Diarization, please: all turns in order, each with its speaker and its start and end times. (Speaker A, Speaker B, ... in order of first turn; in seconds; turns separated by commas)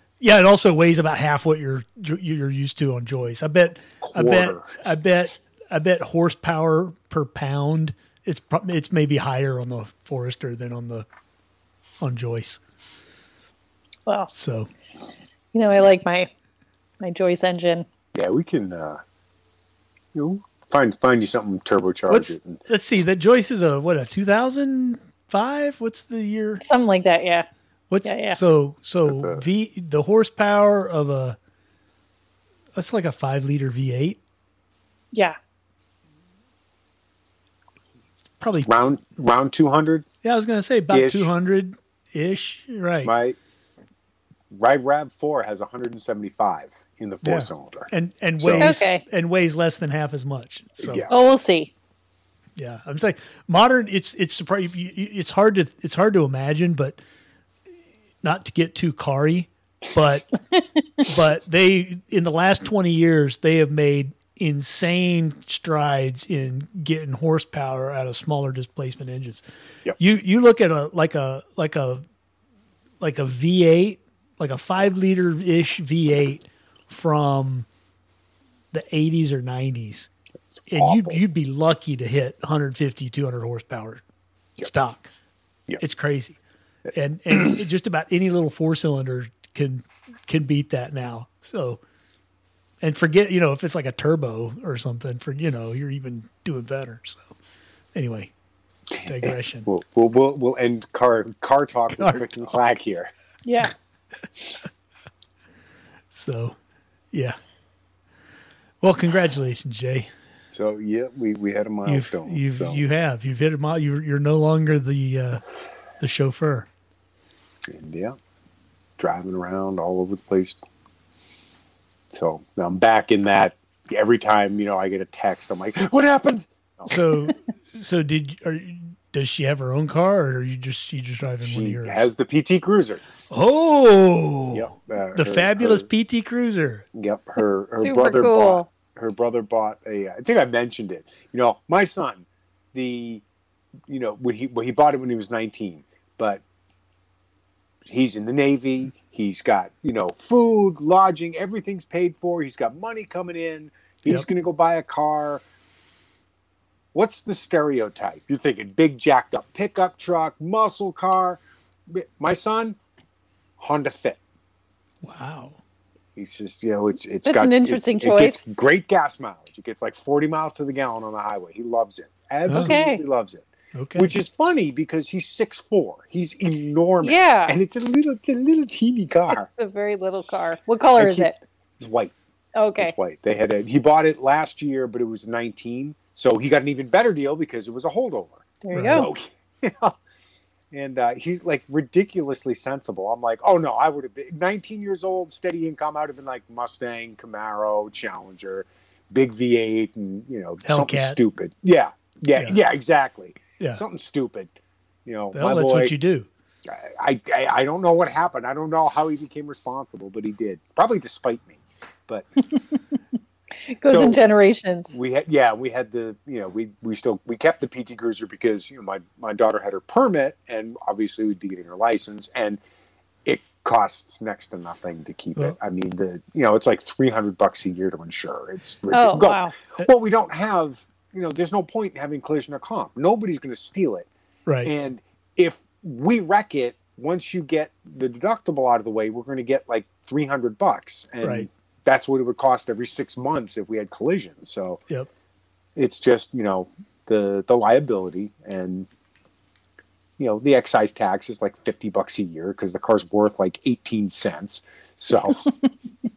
Speaker A: 0.2-11.1, Speaker B: 4.0-4.8, Speaker A: 12.0-12.6, Speaker A: 14.3-14.7, Speaker C: 15.5-16.3, Speaker C: 17.0-17.9, Speaker B: 18.1-19.0, Speaker B: 20.1-22.6, Speaker A: 22.1-26.6, Speaker C: 26.6-27.5, Speaker A: 27.9-31.4, Speaker C: 28.0-28.4, Speaker B: 29.0-29.4, Speaker A: 32.7-34.2, Speaker A: 38.4-38.7, Speaker B: 38.6-40.0, Speaker A: 40.2-43.1, Speaker B: 40.9-41.3, Speaker B: 43.0-43.4, Speaker B: 44.5-48.8, Speaker A: 47.2-51.0, Speaker C: 48.6-49.0, Speaker B: 50.8-51.2, Speaker C: 51.1-51.7, Speaker A: 52.5-57.0, Speaker A: 58.2-60.3, Speaker A: 61.0-69.4, Speaker A: 70.0-72.0, Speaker A: 73.0-77.7, Speaker A: 78.7-80.1, Speaker B: 80.6-81.2, Speaker A: 80.7-84.0, Speaker A: 84.6-85.1, Speaker A: 85.8-86.4, Speaker A: 86.9-91.8, Speaker A: 92.8-97.3, Speaker A: 97.9-98.3, Speaker A: 99.0-99.7, Speaker B: 99.2-103.1, Speaker A: 102.0-102.5, Speaker C: 103.5-103.7, Speaker A: 106.1-106.6, Speaker A: 107.1-107.4, Speaker A: 108.8-110.1, Speaker B: 110.5-112.8, Speaker A: 111.8-115.4, Speaker A: 116.0-116.7, Speaker B: 117.7-118.2, Speaker B: 119.0-120.6, Speaker B: 122.1-127.0, Speaker A: 126.8-132.1, Speaker B: 131.4-133.0, Speaker A: 133.3-136.8, Speaker B: 134.5-135.9, Speaker B: 136.9-143.2, Speaker C: 137.8-138.7, Speaker B: 143.9-146.4, Speaker B: 147.9-155.4, Speaker B: 156.9-162.8, Speaker B: 163.6-164.2, Speaker A: 165.0-165.6, Speaker B: 166.2-179.5, Speaker C: 167.2-168.4, Speaker C: 172.5-173.0, Speaker A: 173.7-174.1, Speaker C: 177.0-177.6, Speaker C: 179.3-181.3, Speaker B: 181.0-182.1, Speaker C: 182.5-182.9, Speaker B: 182.8-190.0, Speaker C: 188.6-189.1, Speaker A: 188.7-189.1, Speaker B: 190.7-204.5, Speaker A: 200.6-201.2, Speaker A: 202.3-202.6, Speaker B: 205.1-205.9, Speaker A: 205.3-206.3, Speaker B: 206.7-212.3, Speaker C: 213.7-214.9, Speaker B: 213.8-214.2, Speaker B: 214.9-222.6, Speaker B: 223.2-234.1, Speaker C: 228.9-229.5, Speaker A: 234.4-234.7, Speaker B: 234.6-244.8, Speaker A: 241.2-241.5, Speaker B: 245.8-248.9, Speaker B: 250.2-255.5